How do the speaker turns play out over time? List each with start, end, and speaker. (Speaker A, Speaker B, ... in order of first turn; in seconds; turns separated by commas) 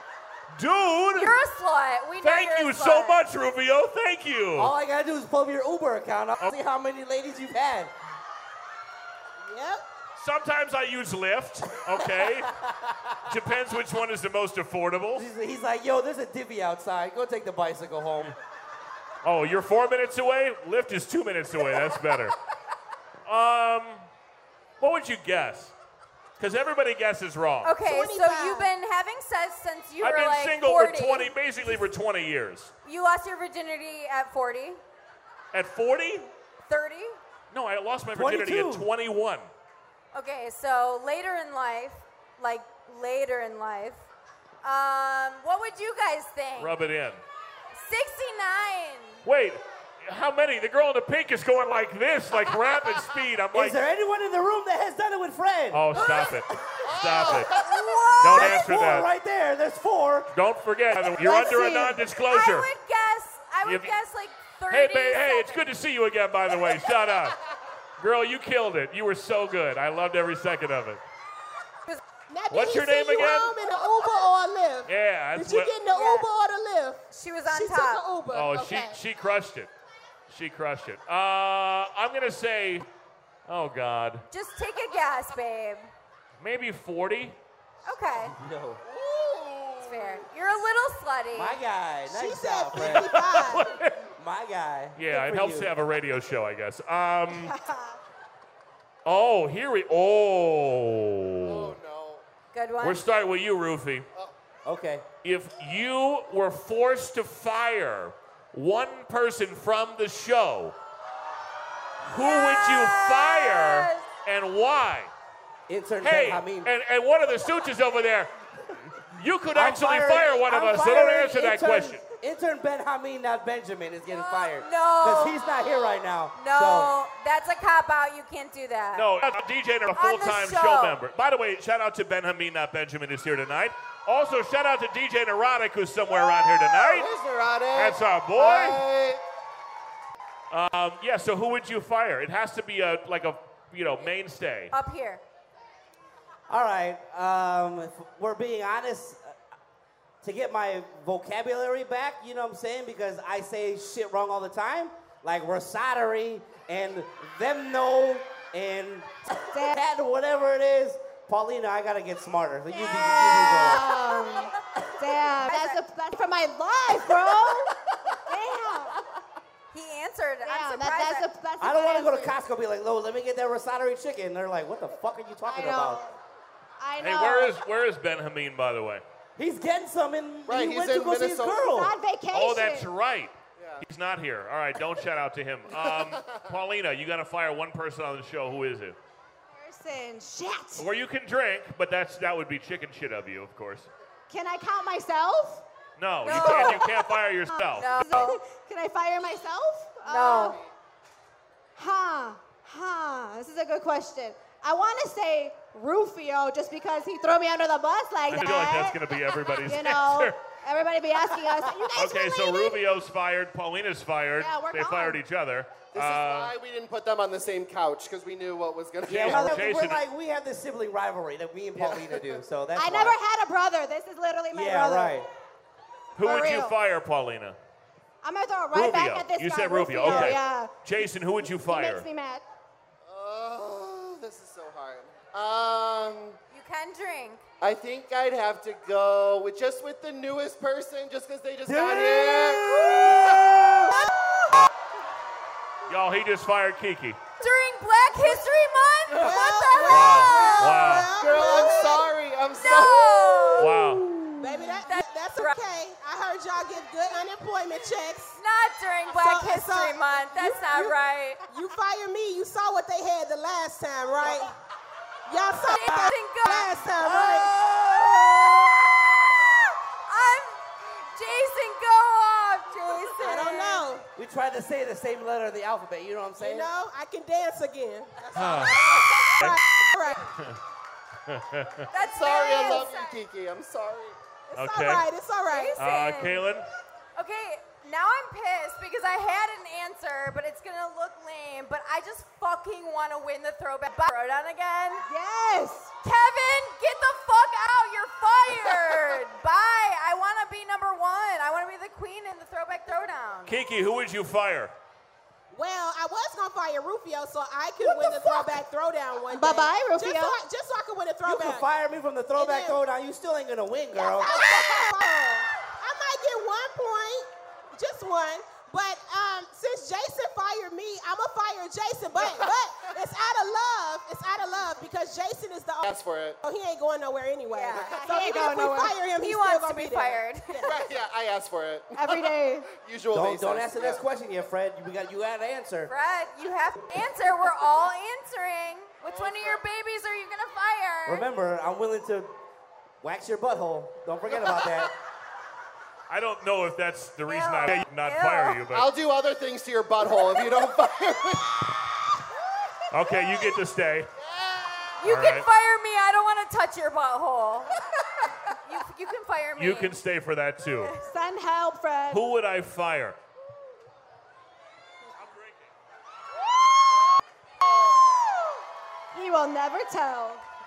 Speaker A: 0.5-1.4, Speaker B: 1.1-3.2, Speaker A: 2.2-4.7, Speaker C: 4.5-7.9, Speaker D: 9.4-9.9, Speaker A: 10.2-12.6, Speaker A: 13.2-15.2, Speaker C: 15.1-18.3, Speaker A: 19.2-22.4, Speaker A: 23.2-24.0, Speaker A: 24.8-25.7, Speaker A: 26.4-27.7, Speaker B: 27.6-31.3, Speaker D: 27.8-28.7, Speaker A: 30.0-32.7, Speaker B: 32.9-34.8, Speaker A: 35.5-36.3, Speaker B: 36.6-37.2, Speaker A: 37.5-39.5, Speaker C: 38.1-38.9, Speaker B: 40.1-44.0, Speaker B: 44.6-46.8, Speaker A: 46.6-47.2, Speaker B: 47.7-49.2, Speaker A: 49.2-53.8, Speaker C: 53.5-56.4, Speaker A: 55.7-57.5, Speaker E: 56.8-57.7, Speaker B: 57.7-58.5, Speaker C: 58.1-60.3, Speaker A: 58.2-59.1, Speaker A: 60.3-62.7, Speaker F: 61.1-62.0, Speaker B: 62.3-65.7, Speaker A: 63.6-63.9, Speaker A: 64.7-67.4, Speaker A: 68.0-71.0, Speaker D: 72.3-79.0, Speaker A: 72.5-73.6, Speaker A: 74.9-75.7, Speaker B: 75.9-76.3, Speaker B: 77.1-78.0, Speaker A: 78.3-79.7, Speaker A: 80.3-82.9, Speaker A: 83.5-84.2, Speaker B: 84.3-85.9, Speaker A: 86.4-87.4, Speaker B: 87.9-88.3, Speaker C: 88.2-88.8, Speaker E: 88.8-90.2, Speaker B: 89.8-91.6, Speaker C: 91.3-93.2, Speaker D: 92.1-93.7, Speaker A: 92.7-94.0, Speaker C: 94.2-95.7, Speaker A: 95.0-97.5, Speaker F: 97.3-98.0, Speaker A: 99.0-101.8, Speaker E: 101.4-102.2, Speaker B: 102.5-103.0, Speaker A: 102.8-104.1, Speaker C: 104.6-105.0, Speaker A: 105.2-110.7, Speaker A: 112.0-115.1, Speaker B: 112.2-114.1, Speaker C: 115.7-116.7, Speaker A: 116.0-118.3, Speaker A: 119.2-122.0, Speaker C: 119.5-126.9, Speaker B: 124.1-125.8, Speaker B: 126.3-129.1, Speaker A: 128.9-137.1, Speaker B: 129.9-131.0, Speaker E: 136.8-139.2, Speaker A: 137.7-138.8, Speaker A: 140.5-144.7, Speaker B: 144.7-145.2, Speaker C: 146.5-149.4, Speaker C: 150.2-164.2, Speaker F: 159.5-159.8, Speaker F: 162.7-167.7, Speaker B: 165.5-165.8, Speaker F: 168.3-169.0, Speaker B: 169.7-171.3, Speaker F: 170.4-172.3, Speaker C: 171.6-176.0, Speaker F: 175.4-176.2, Speaker F: 176.8-177.5, Speaker A: 177.0-179.0, Speaker C: 179.4-181.9, Speaker E: 180.5-181.7, Speaker F: 181.7-182.9, Speaker A: 182.3-188.9, Speaker E: 183.6-183.8, Speaker E: 185.7-186.5, Speaker F: 189.5-190.8, Speaker A: 190.8-193.9, Speaker F: 194.3-195.6, Speaker A: 196.0-198.2, Speaker B: 196.2-196.8, Speaker F: 196.2-200.6, Speaker B: 197.8-198.4, Speaker B: 200.1-200.6, Speaker E: 200.3-200.7, Speaker F: 201.8-212.8, Speaker A: 208.3-210.3, Speaker A: 211.9-216.5, Speaker F: 214.4-215.2, Speaker E: 215.9-219.6, Speaker C: 219.1-223.2, Speaker A: 219.1-220.0, Speaker E: 221.8-222.4, Speaker F: 222.8-225.2, Speaker C: 224.5-225.3, Speaker A: 226.2-227.6, Speaker F: 226.2-226.8, Speaker F: 228.2-230.7, Speaker A: 228.7-232.1, Speaker C: 230.0-230.3, Speaker F: 231.6-232.4, Speaker E: 233.0-236.4, Speaker B: 236.5-237.4, Speaker E: 237.6-243.4, Speaker C: 241.7-244.1, Speaker A: 245.9-247.2, Speaker B: 247.4-251.9, Speaker D: 249.1-252.1, Speaker A: 249.9-251.1, Speaker E: 251.1-253.7, Speaker B: 252.6-253.8, Speaker A: 253.6-254.0, Speaker D: 254.4-258.4, Speaker B: 254.8-255.6, Speaker B: 258.4-261.4, Speaker D: 259.1-260.9, Speaker D: 261.5-264.5, Speaker D: 265.3-267.6, Speaker B: 265.6-266.8, Speaker C: 267.0-268.7, Speaker B: 270.1-270.6, Speaker B: 271.1-273.9, Speaker D: 273.2-274.1, Speaker C: 274.1-276.7, Speaker D: 276.4-280.3, Speaker A: 278.3-279.6, Speaker B: 278.9-279.3, Speaker A: 281.3-281.9, Speaker B: 281.9-283.2, Speaker E: 282.0-284.2, Speaker D: 284.5-285.8, Speaker A: 284.5-285.1, Speaker B: 285.5-286.5, Speaker A: 285.8-286.6, Speaker B: 287.1-295.1, Speaker F: 295.0-295.9, Speaker B: 296.0-303.6, Speaker A: 303.4-304.7, Speaker D: 305.5-311.7, Speaker F: 307.8-308.5, Speaker F: 309.3-310.4, Speaker C: 311.2-314.5, Speaker D: 312.4-312.8, Speaker D: 314.0-325.9, Speaker E: 325.9-326.4, Speaker D: 326.4-330.9, Speaker B: 327.5-327.9, Speaker F: 328.0-328.9, Speaker B: 329.2-330.6, Speaker E: 330.6-334.0, Speaker F: 331.9-332.7, Speaker C: 333.1-335.9, Speaker B: 335.9-341.2, Speaker E: 339.1-339.6, Speaker C: 341.1-342.3, Speaker C: 343.0-344.9, Speaker A: 346.1-348.9, Speaker B: 347.3-348.6, Speaker E: 348.7-351.6, Speaker A: 352.9-354.1, Speaker E: 354.2-355.0, Speaker B: 355.0-357.8, Speaker A: 355.0-355.4, Speaker B: 358.6-360.0, Speaker A: 359.6-360.9, Speaker F: 361.0-362.2, Speaker A: 362.1-363.2, Speaker A: 365.1-365.7, Speaker F: 369.1-370.4